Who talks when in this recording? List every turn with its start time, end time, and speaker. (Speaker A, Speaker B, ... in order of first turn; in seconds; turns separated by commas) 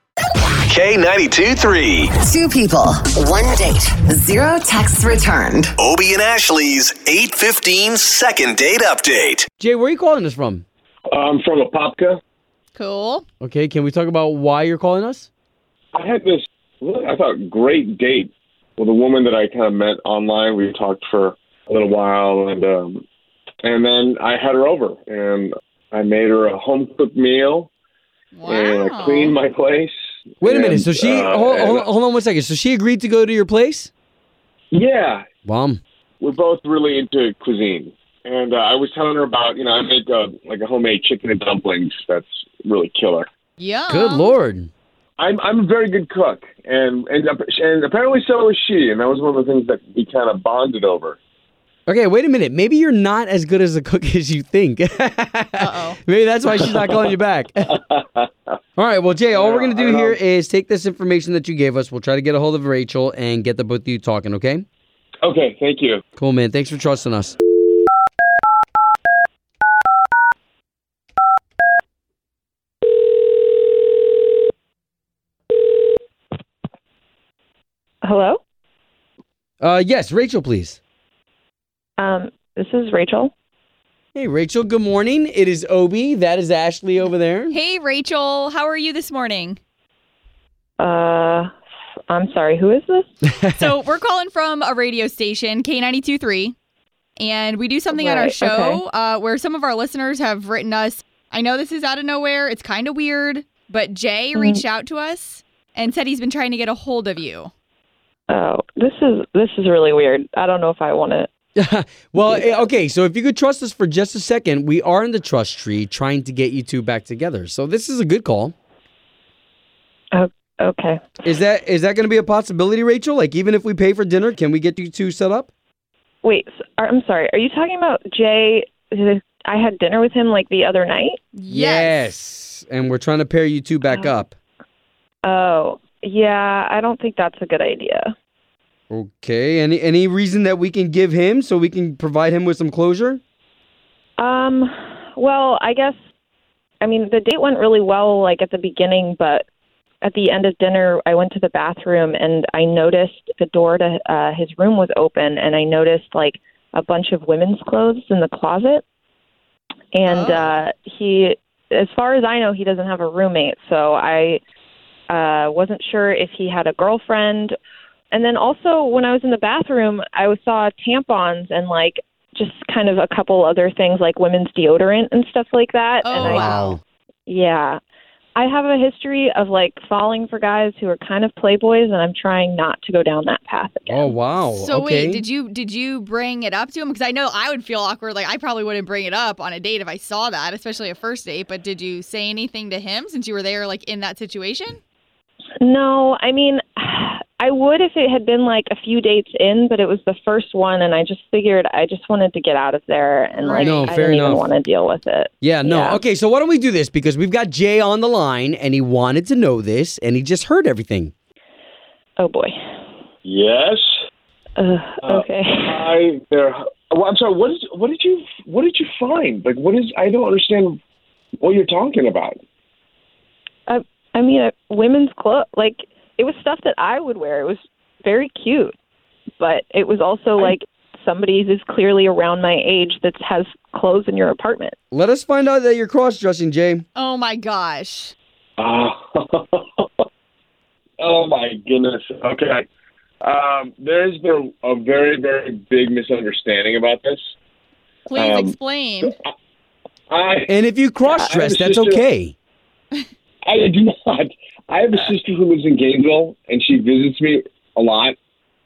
Speaker A: 0.6-2.1, Speaker B: 2.2-5.7, Speaker A: 5.8-9.5, Speaker C: 9.6-10.7, Speaker D: 11.1-12.2, Speaker E: 12.7-13.2, Speaker C: 13.4-15.3, Speaker D: 15.9-23.0, Speaker D: 23.6-27.7, Speaker E: 28.3-29.4, Speaker D: 28.5-31.9, Speaker C: 30.4-33.9, Speaker D: 34.7-35.2, Speaker C: 35.5-35.8, Speaker D: 36.2-43.3, Speaker E: 43.6-44.4, Speaker C: 43.9-44.7, Speaker D: 45.2-51.2, Speaker C: 51.9-57.7, Speaker E: 55.6-56.0, Speaker D: 57.7-58.5, Speaker C: 58.8-64.7, Speaker D: 59.3-60.2, Speaker D: 65.2-66.0, Speaker C: 66.2-67.4, Speaker F: 78.0-78.4, Speaker C: 79.6-80.8, Speaker F: 82.0-83.3, Speaker C: 84.2-87.6, Speaker E: 87.5-89.6, Speaker F: 90.8-91.5, Speaker F: 92.1-93.1, Speaker E: 93.5-96.5, Speaker E: 97.2-107.5, Speaker F: 97.9-98.8, Speaker F: 104.3-104.6, Speaker F: 108.3-111.3, Speaker C: 111.6-118.5, Speaker F: 112.2-112.7, Speaker F: 120.1-121.0, Speaker C: 121.2-125.5, Speaker F: 126.2-131.2, Speaker E: 131.3-132.1, Speaker C: 131.5-134.3, Speaker F: 133.9-134.1, Speaker F: 135.2-138.1, Speaker C: 138.9-143.2, Speaker F: 144.2-146.0, Speaker F: 146.8-149.4, Speaker F: 150.0-158.8, Speaker F: 159.9-164.4, Speaker E: 160.1-160.6, Speaker F: 165.1-167.5, Speaker F: 168.1-176.6, Speaker E: 176.0-176.8, Speaker C: 176.2-176.8, Speaker F: 177.3-177.8, Speaker F: 178.4-184.2, Speaker C: 183.9-185.3, Speaker E: 184.6-194.8, Speaker F: 195.6-206.0, Speaker E: 203.4-203.9, Speaker C: 203.6-204.5, Speaker C: 205.4-211.1, Speaker F: 212.2-212.6, Speaker D: 213.2-213.8, Speaker F: 214.6-215.8, Speaker D: 215.0-220.8, Speaker D: 221.4-222.4, Speaker F: 223.7-228.7, Speaker F: 229.4-234.8, Speaker C: 234.9-236.8, Speaker E: 237.0-238.1, Speaker D: 238.6-239.9, Speaker D: 241.0-242.7, Speaker D: 243.2-247.2, Speaker E: 248.1-249.2, Speaker D: 248.1-248.6, Speaker D: 250.1-250.5, Speaker C: 250.5-252.3, Speaker D: 251.2-252.0, Speaker D: 253.5-258.1